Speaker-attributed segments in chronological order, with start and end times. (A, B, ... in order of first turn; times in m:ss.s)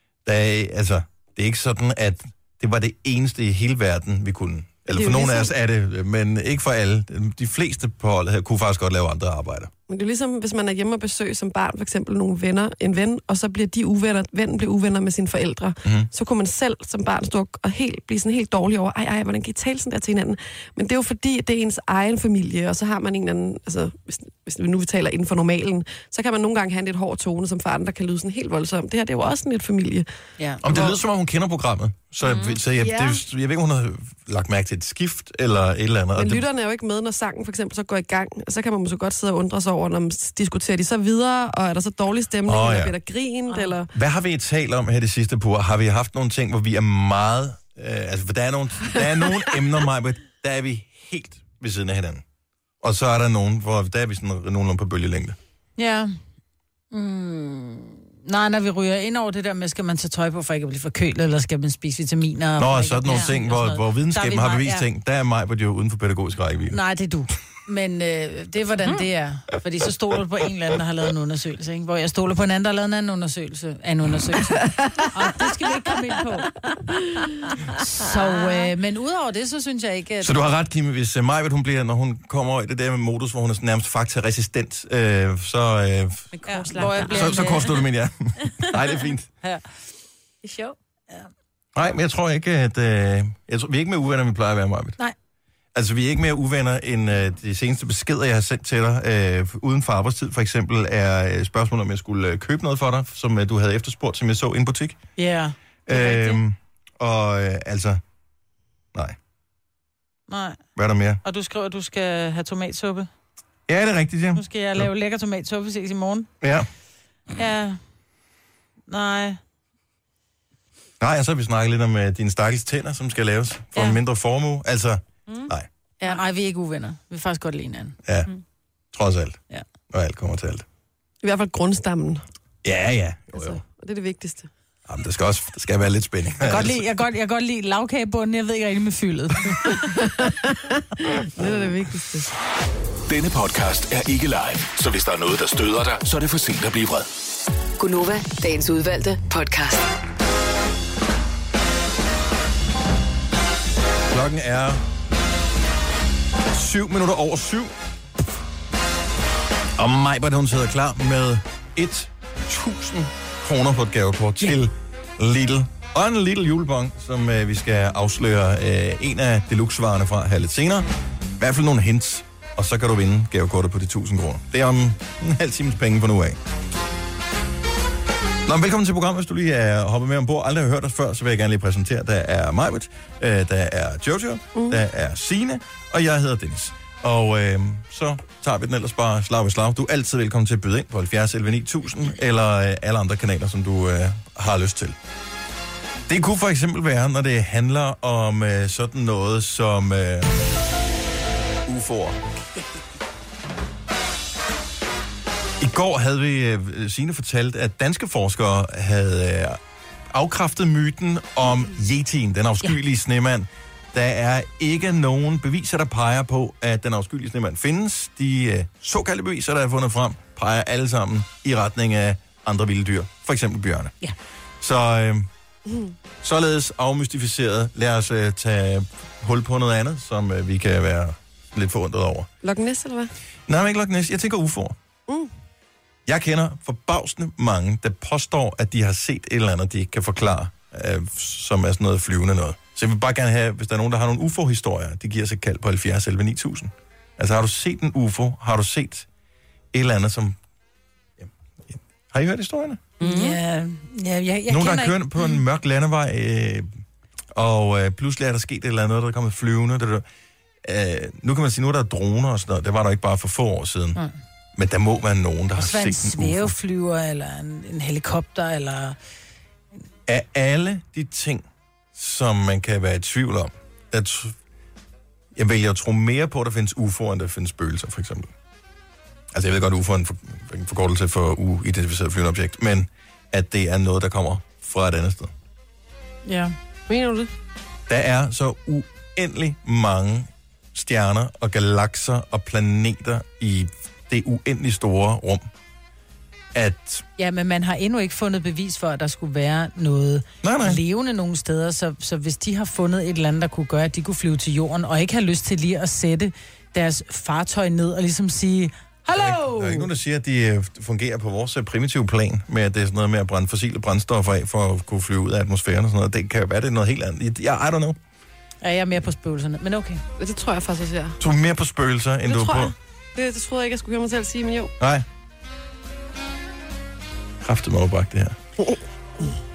0:00.2-0:09.7 A
0:04.9-0:05.5 B
0:09.9-0:30.1 B
0:15.8-0:16.1 A
0:30.6-0:31.0 B
0:30.6-0:36.4 A
0:32.2-0:32.6 C
0:36.2-0:43.9 B
0:42.4-0:43.0 A
0:43.9-0:52.2 A
0:52.8-0:55.4 A
0:55.8-0:56.2 D
0:56.9-1:04.9 D
1:02.6-1:06.8 A
1:06.7-1:16.6 D
1:17.7-1:20.4 D
1:20.2-1:26.4 A
1:26.3-1:27.7 C
1:26.5-1:27.7 D
1:26.9-1:29.3 A
1:30.4-1:30.8 C
1:31.8-1:35.0 A
1:35.7-1:45.0 A
1:45.2-1:46.4 D
1:45.9-1:48.0 A
1:50.3-1:50.6 D
1:50.8-1:51.2 A
1:51.2-1:53.1 D
1:53.7-1:54.9 A
1:54.4-1:56.3 D
1:56.4-1:56.7 A
1:57.4-1:57.8 D
1:58.9-1:59.4 D
2:01.0-2:05.7 A
2:06.0-2:08.0 D
2:08.0-2:08.3 A
2:08.9-2:09.4 A
2:09.9-2:10.6 A
2:11.2-2:12.2 B
2:12.6-2:13.6 A
2:13.4-2:14.5 B
2:14.9-2:16.8 A
2:16.4-2:19.9 D
2:20.0-2:22.3 B
2:23.1-2:27.1 E
2:27.8-2:29.9 F
2:34.1-2:34.8 A
2:36.5-2:37.7 A
2:39.8-2:50.9 A
2:51.4-2:56.4 A
2:58.4-3:15.0 A
3:04.6-3:04.8 B
3:16.1-3:20.4 A
3:21.7-3:22.2 A
3:25.6-3:29.6 A
3:30.1-3:44.0 A
3:44.6-3:45.3 A
3:45.7-3:45.9 B
3:46.2-3:52.3 A
3:52.4-3:53.1 B
3:53.5-3:54.8 A
3:56.1-4:09.1 A
4:09.7-4:10.4 A
4:11.2-4:12.8 A
4:13.0-4:13.4 C
4:13.0-4:15.0 D
4:14.5-4:16.7 A
4:17.3-4:20.1 A
4:20.6-4:24.0 A
4:24.6-4:26.6 A
4:25.6-4:29.0 D
4:30.1-4:34.4 A
4:35.4-4:38.3 A
4:39.3-4:45.3 A
4:46.3-4:46.6 D
4:46.9-4:47.3 B
4:47.9-4:55.5 A
4:56.5-4:57.0 A
4:57.2-5:09.9 D
5:00.4-5:00.8 A
5:09.1-5:18.0 A
5:18.6-5:20.0 D
5:20.2-5:21.2 B
5:21.2-5:22.7 A
5:22.3-5:24.7 B
5:24.8-5:25.1 A
5:27.4-5:28.4 A